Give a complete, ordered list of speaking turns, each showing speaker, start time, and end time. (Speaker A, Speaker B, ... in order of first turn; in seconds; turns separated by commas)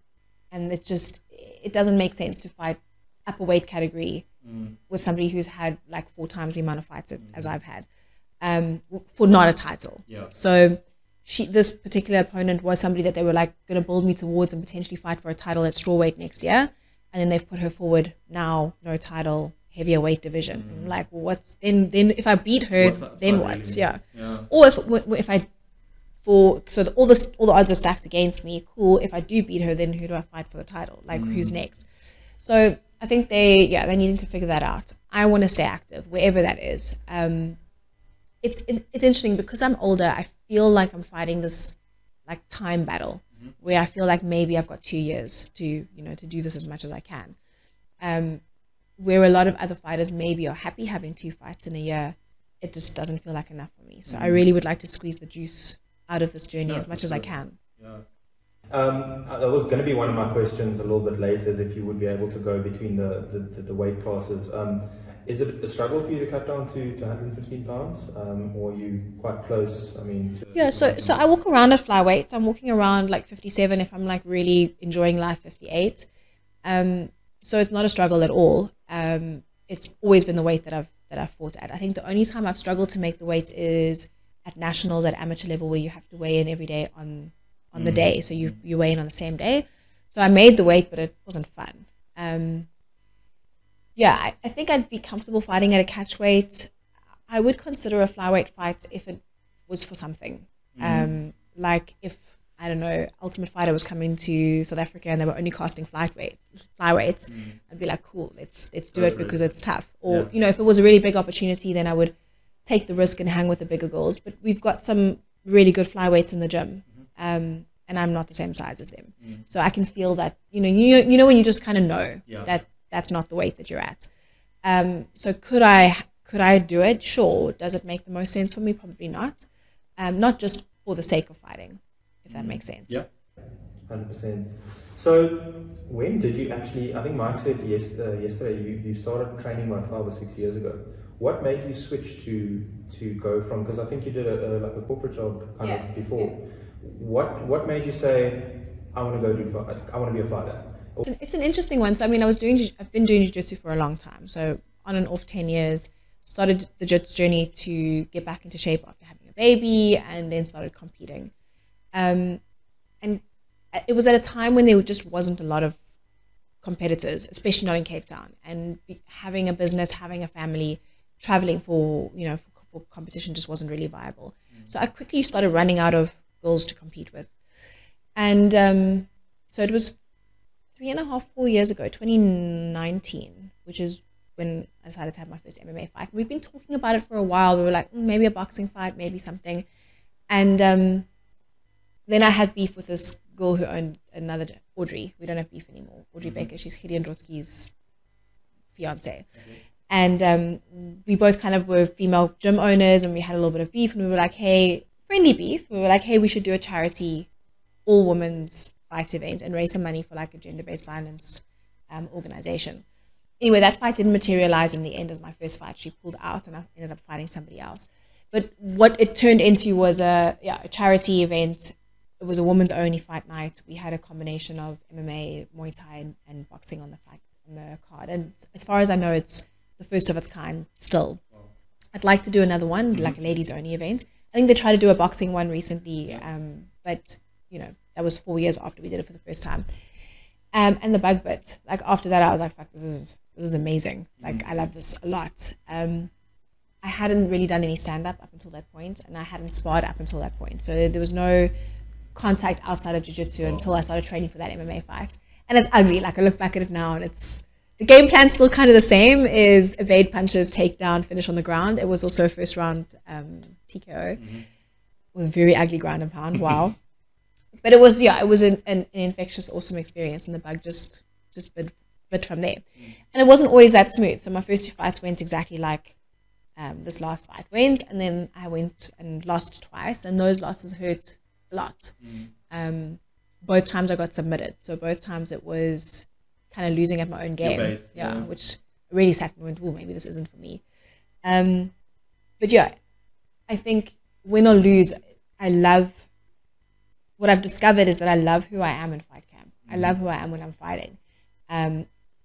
Speaker A: 0.5-4.3, Speaker B: 4.4-4.8, Speaker A: 4.9-7.9, Speaker B: 7.2-7.5, Speaker A: 8.4-25.5, Speaker B: 10.1-10.3, Speaker B: 20.5-20.9, Speaker B: 22.8-24.5, Speaker A: 26.2-31.8, Speaker B: 31.1-31.6, Speaker A: 32.4-37.6, Speaker A: 38.4-47.4, Speaker A: 48.0-48.4, Speaker A: 49.0-57.6, Speaker B: 54.1-54.4, Speaker B: 56.6-58.0, Speaker C: 58.7-71.1, Speaker B: 70.5-71.2, Speaker A: 70.5-76.1, Speaker A: 76.6-92.7, Speaker B: 87.8-88.5, Speaker A: 94.0-96.7, Speaker A: 97.3-112.1, Speaker B: 100.8-101.2, Speaker B: 107.3-107.6, Speaker B: 108.9-109.5, Speaker B: 110.1-110.3, Speaker A: 112.6-124.1, Speaker B: 119.2-119.5, Speaker B: 122.3-122.6, Speaker A: 124.6-129.5, Speaker A: 130.0-133.0, Speaker B: 132.3-133.1, Speaker C: 133.8-151.1, Speaker A: 145.6-146.3, Speaker A: 151.1-161.3, Speaker A: 161.9-162.4, Speaker A: 163.7-165.8, Speaker A: 166.6-177.3, Speaker A: 178.2-180.0, Speaker A: 180.8-189.6, Speaker A: 190.3-191.1, Speaker A: 192.1-197.7, Speaker B: 196.2-196.5, Speaker A: 198.8-207.3, Speaker B: 199.4-199.6, Speaker A: 207.9-212.8, Speaker A: 213.4-231.2, Speaker A: 231.9-239.7, Speaker B: 232.9-233.2, Speaker A: 240.5-246.1, Speaker B: 244.2-244.5, Speaker A: 246.8-251.5, Speaker A: 252.1-264.3, Speaker B: 264.2-264.5, Speaker A: 265.1-266.8, Speaker A: 267.6-275.9, Speaker A: 276.6-282.0, Speaker B: 282.0-282.3, Speaker A: 282.5-290.6, Speaker B: 287.4-288.3, Speaker A: 291.2-291.7, Speaker A: 292.4-292.8, Speaker A: 293.5-296.1, Speaker A: 297.2-301.0, Speaker B: 299.7-300.0, Speaker A: 301.5-301.9